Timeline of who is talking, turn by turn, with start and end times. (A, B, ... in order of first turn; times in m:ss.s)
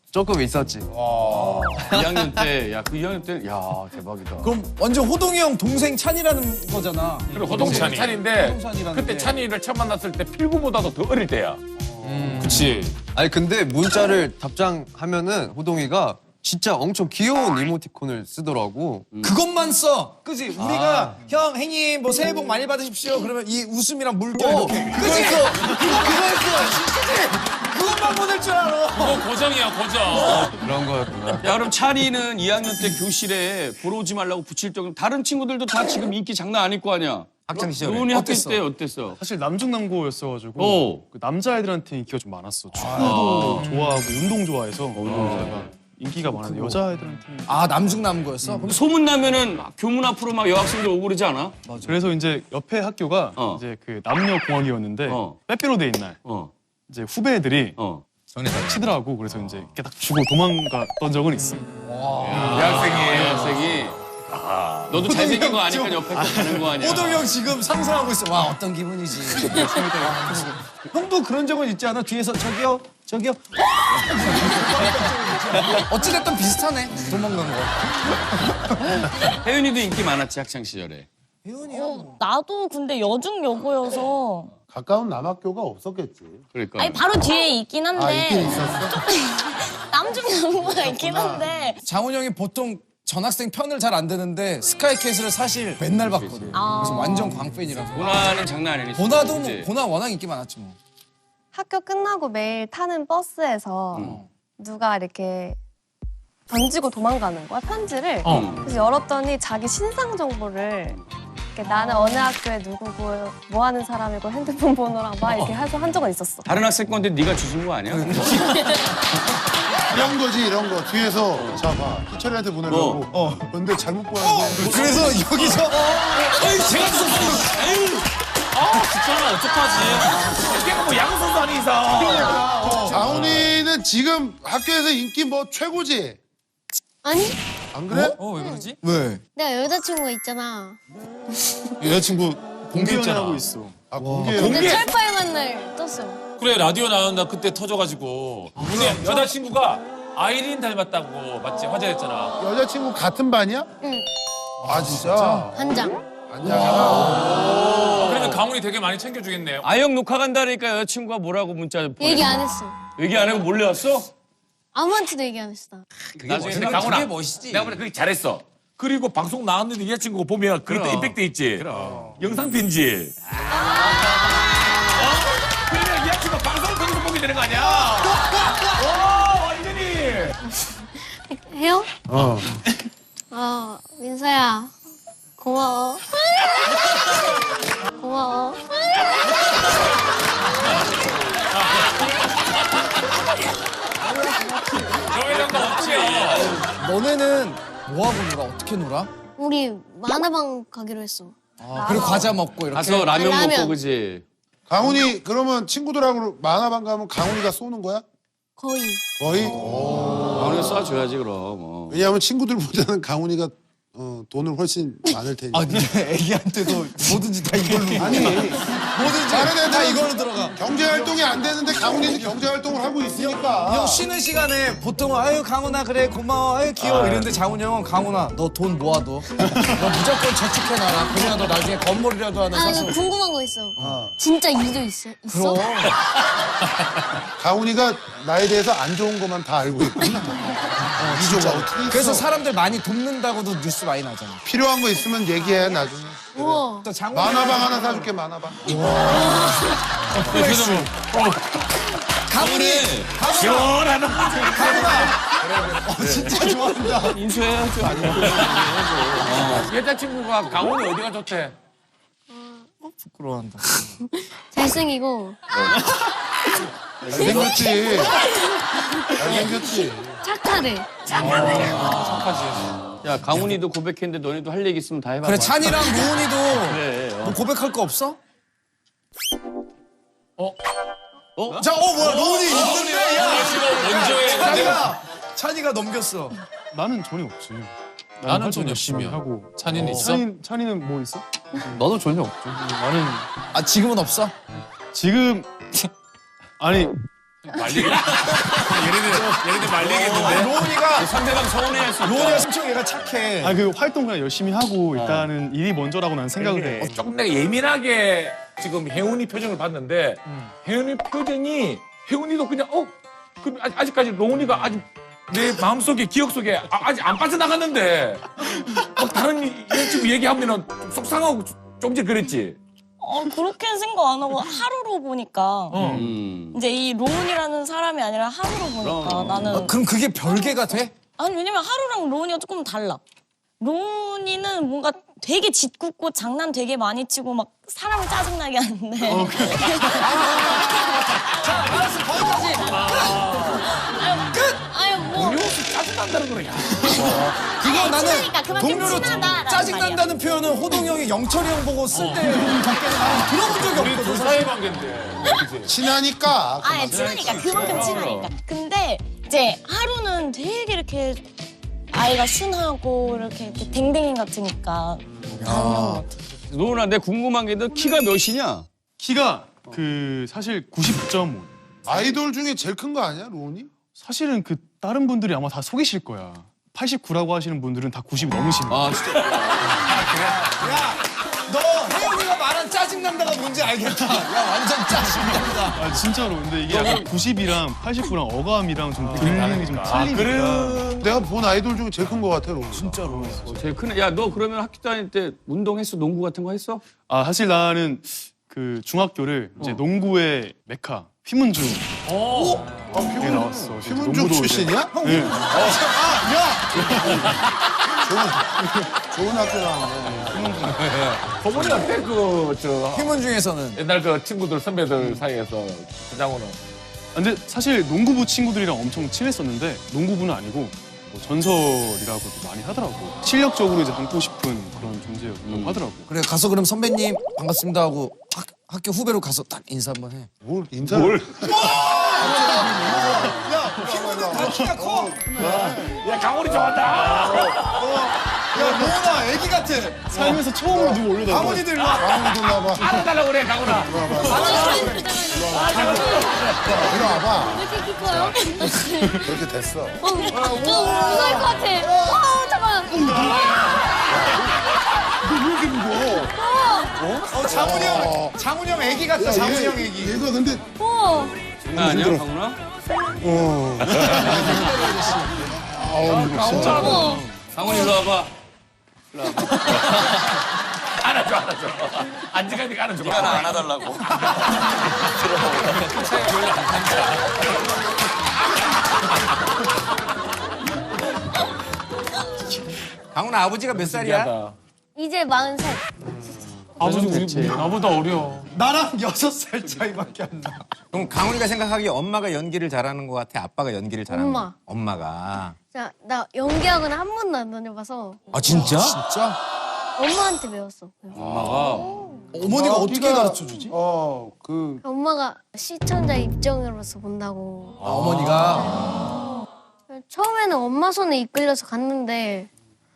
0:00.1-0:00.9 A
0:01.3-0:01.8 B
0:01.3-0:04.5 C
0:01.8-0:02.4 A
0:04.4-0:09.4 D
0:07.3-0:08.1 E
0:07.3-0:12.6 F
0:12.1-0:12.9 E
0:13.1-0:19.0 A
0:19.2-0:29.3 D
0:20.6-0:21.2 A
0:24.4-0:24.8 A
0:24.9-0:25.4 F
0:24.9-0:25.4 G
0:29.0-0:30.5 E
0:30.1-0:30.5 D
0:30.6-0:31.5 A
0:31.4-0:39.2 C
0:37.4-0:38.1 H
0:37.6-0:38.6 D
0:39.2-0:47.6 I
0:40.6-0:41.0 C
0:42.8-0:43.6 D
0:43.0-0:43.7 C
0:45.0-0:45.6 C
0:46.2-0:46.8 D
0:47.4-0:48.8 D
0:48.4-0:51.6 C
0:51.7-0:52.0 D
0:51.8-0:56.2 I
0:55.1-0:55.4 C
0:56.2-0:56.5 C
0:56.9-0:57.8 I
0:57.8-0:58.0 C
0:58.3-0:59.7 H
0:58.5-1:01.7 I
1:02.0-1:05.0 F
1:02.2-1:04.0 C
1:02.3-1:03.0 I
1:04.9-1:07.3 C
1:04.9-1:09.6 D
1:06.1-1:06.7 I
1:09.4-1:10.6 I
1:10.9-1:18.5 D
1:18.8-1:21.1 C
1:21.4-1:22.2 D
1:21.7-1:24.5 J
1:24.7-1:26.4 B
1:26.5-1:27.0 C
1:26.7-1:31.8 J
1:27.9-1:29.0 B
1:30.5-1:31.5 B
1:31.8-1:38.4 D
1:36.0-1:36.6 C
1:36.5-1:37.4 J
1:37.9-1:39.7 C
1:38.9-1:40.8 D
1:41.5-1:45.6 G
1:43.9-1:44.2 C
1:46.5-1:51.0 G
1:48.3-1:48.7 C
1:51.5-1:56.5 G
1:55.3-1:55.5 C
1:56.4-1:58.4 C
1:57.9-1:58.8 D
1:59.9-2:05.2 B
2:02.7-2:03.0 C
2:03.1-2:03.5 D
2:04.2-2:06.0 D
2:06.4-2:07.8 E
2:06.4-2:07.5 F
2:06.5-2:07.6 D
2:08.6-2:10.3 E
2:08.6-2:09.0 F
2:09.7-2:12.4 F
2:12.0-2:13.3 D
2:12.1-2:16.2 B
2:17.0-2:17.4 K
2:17.7-2:18.2 B
2:18.2-2:18.8 C
2:18.3-2:18.7 K
2:18.8-2:19.2 D
2:19.4-2:20.8 K
2:21.3-2:21.8 K
2:21.8-2:23.0 B
2:22.7-2:23.8 I
2:23.9-2:24.8 B
2:24.0-2:24.4 D
2:24.4-2:24.8 F
2:24.4-2:26.2 K
2:26.4-2:32.3 E
2:28.6-2:29.3 B
2:32.4-2:33.7 B
2:33.8-2:34.1 K
2:34.6-2:35.6 B
2:34.6-2:35.5 D
2:35.5-2:36.0 K
2:36.3-2:37.6 B
2:37.4-2:38.5 C
2:37.9-2:39.7 E
2:39.6-2:42.4 C
2:42.0-2:42.8 K
2:43.0-2:44.1 C
2:44.7-2:45.8 K
2:46.2-2:47.8 H
2:46.2-2:46.7 C
2:46.3-2:47.0 D
2:46.4-2:51.6 F
2:50.7-2:52.1 C
2:52.2-2:53.2 F
2:53.5-2:54.4 K
2:54.0-3:00.4 F
3:00.4-3:01.9 K
3:02.1-3:02.6 B
3:03.3-3:04.7 K
3:05.4-3:06.8 K
3:08.0-3:08.7 K
3:15.1-3:16.5 E
3:15.6-3:16.6 F
3:16.4-3:19.1 D
3:19.4-3:22.4 K
3:21.6-3:23.1 D
3:21.8-3:22.2 G
3:22.7-3:24.2 C
3:23.1-3:23.8 K
3:24.7-3:28.0 B
3:28.6-3:29.0 K
3:29.2-3:30.9 B
3:30.3-3:32.0 C
3:31.9-3:35.8 B
3:35.5-3:40.6 D
3:37.7-3:44.0 B
3:41.9-3:42.4 D
3:43.1-3:53.0 D
3:46.8-3:47.3 F
3:52.5-3:55.6 K
3:53.8-3:54.0 D
3:53.8-3:54.1 B
3:55.3-3:56.0 D
3:57.4-4:02.3 B
4:01.0-4:04.4 D
4:04.4-4:06.6 B
4:06.3-4:06.9 K
4:06.8-4:08.1 D
4:07.1-4:08.8 B
4:08.6-4:09.6 D
4:09.1-4:09.6 K
4:10.2-4:10.9 D
4:10.2-4:10.9 E
4:10.3-4:11.4 F
4:12.3-4:15.2 D
4:12.4-4:13.1 C
4:13.3-4:16.4 F
4:15.8-4:17.2 D
4:17.1-4:19.7 C
4:18.2-4:18.6 F
4:19.3-4:21.5 F
4:22.3-4:22.7 K
4:23.0-4:23.9 D
4:24.2-4:25.7 K
4:27.0-4:27.5 C
4:27.1-4:28.2 B
4:29.2-4:30.2 B
4:30.2-4:30.9 K
4:31.1-4:31.9 F
4:31.2-4:32.7 E
4:33.0-4:37.4 C
4:35.2-4:38.2 D
4:41.4-4:42.5 C
4:41.5-4:46.4 D
4:42.3-4:44.9 E
4:46.7-4:53.3 I
4:48.2-4:50.2 E
4:52.1-4:52.4 A
4:53.5-4:54.3 D
4:54.9-4:55.7 I
4:56.6-4:57.0 I
4:57.5-4:57.8 E
4:57.5-5:00.6 F
4:58.0-5:02.5 C
4:59.9-5:01.1 D
5:02.0-5:03.6 D
5:03.4-5:06.9 I
5:06.8-5:22.6 F
5:23.0-5:29.8 J
5:25.7-5:26.1 F
5:25.8-5:26.6 C
5:28.8-5:29.6 C
5:29.5-5:30.9 D
5:31.2-5:33.0 J
5:33.6-5:40.6 J
5:39.0-5:40.1 I
5:40.0-5:43.3 D
5:42.5-5:45.5 J
5:43.0-5:43.6 F
5:44.3-5:44.6 D
5:45.1-5:47.2 F
5:46.9-5:54.5 D
5:46.9-5:50.1 J
5:47.0-5:47.3 B
5:52.0-5:52.2 E
5:53.5-5:55.7 F
5:53.8-5:54.2 E
5:55.6-5:58.2 B
5:56.6-6:01.2 J
5:56.9-5:57.2 C
5:57.5-5:57.9 F
5:58.0-5:58.3 C
6:01.9-6:06.2 J
6:05.4-6:06.0 D
6:06.5-6:08.7 C
6:09.0-6:11.5 I
6:11.9-6:13.7 B
6:13.9-6:19.0 I
6:19.1-6:20.5 F
6:20.0-6:25.8 D
6:25.2-6:30.9 I
6:29.1-6:29.4 D
6:29.2-6:31.1 F
6:29.2-6:30.0 E
6:29.4-6:29.7 B
6:30.2-6:33.3 B
6:32.7-6:33.6 D
6:33.0-6:33.5 I
6:33.5-6:36.9 C
6:37.0-6:41.8 I
6:42.0-6:42.7 E
6:42.4-6:44.9 B
6:43.2-6:45.4 I
6:44.9-6:46.9 D
6:46.8-6:47.2 I
6:48.0-6:50.6 B
6:50.3-6:50.7 I
6:50.6-6:51.2 D
6:51.4-6:53.2 F
6:52.9-6:53.8 D
6:53.8-6:56.6 F
6:57.1-7:06.1 I
7:05.4-7:05.8 C
7:06.1-7:10.3 D
7:10.4-7:17.6 B
7:10.9-7:11.8 F
7:11.4-7:15.6 D
7:14.4-7:14.7 I
7:15.4-7:17.9 F
7:17.6-7:20.2 D
7:20.1-7:21.6 I
7:20.1-7:23.0 B
7:21.3-7:22.6 D
7:21.8-7:22.2 F
7:22.7-7:24.8 F
7:23.7-7:28.4 B
7:24.2-7:29.3 K
7:24.3-7:25.2 D
7:25.5-7:26.8 F
7:28.6-7:29.2 I
7:29.2-7:31.9 B
7:30.0-7:33.4 K
7:32.9-7:33.5 B
7:34.1-7:34.5 B
7:35.2-7:36.3 B
7:36.4-7:37.0 K
7:37.0-7:38.4 B
7:37.3-7:40.2 D
7:39.1-7:40.6 B
7:40.8-7:41.4 K
7:41.6-7:42.6 C
7:41.7-7:42.3 B
7:43.2-7:47.1 B
7:43.9-7:44.3 F
7:44.1-7:45.5 D
7:46.0-7:47.1 F
7:46.3-7:47.1 D
7:46.4-7:47.2 E
7:46.6-7:48.0 K
7:47.5-7:48.3 C
7:49.1-7:49.8 C
7:49.4-7:50.3 F
7:50.9-7:57.4 F
7:53.0-7:54.1 C
7:55.2-7:55.8 C
7:56.0-7:57.0 E
8:03.1-8:04.2 H
8:03.7-8:04.6 F
8:04.9-8:05.9 K
8:06.8-8:07.7 C
8:06.8-8:08.5 F
8:07.2-8:07.4 E
8:08.5-8:10.7 D
8:10.9-8:15.6 H
8:14.1-8:14.5 K
8:15.7-8:18.8 K
8:18.4-8:19.0 H
8:18.4-8:19.4 D
8:20.0-8:22.2 K
8:21.1-8:21.8 C
8:22.3-8:23.8 D
8:22.4-8:24.8 B
8:24.8-8:27.8 K
8:27.8-8:28.9 D
8:28.4-8:29.1 K
8:29.9-8:32.5 K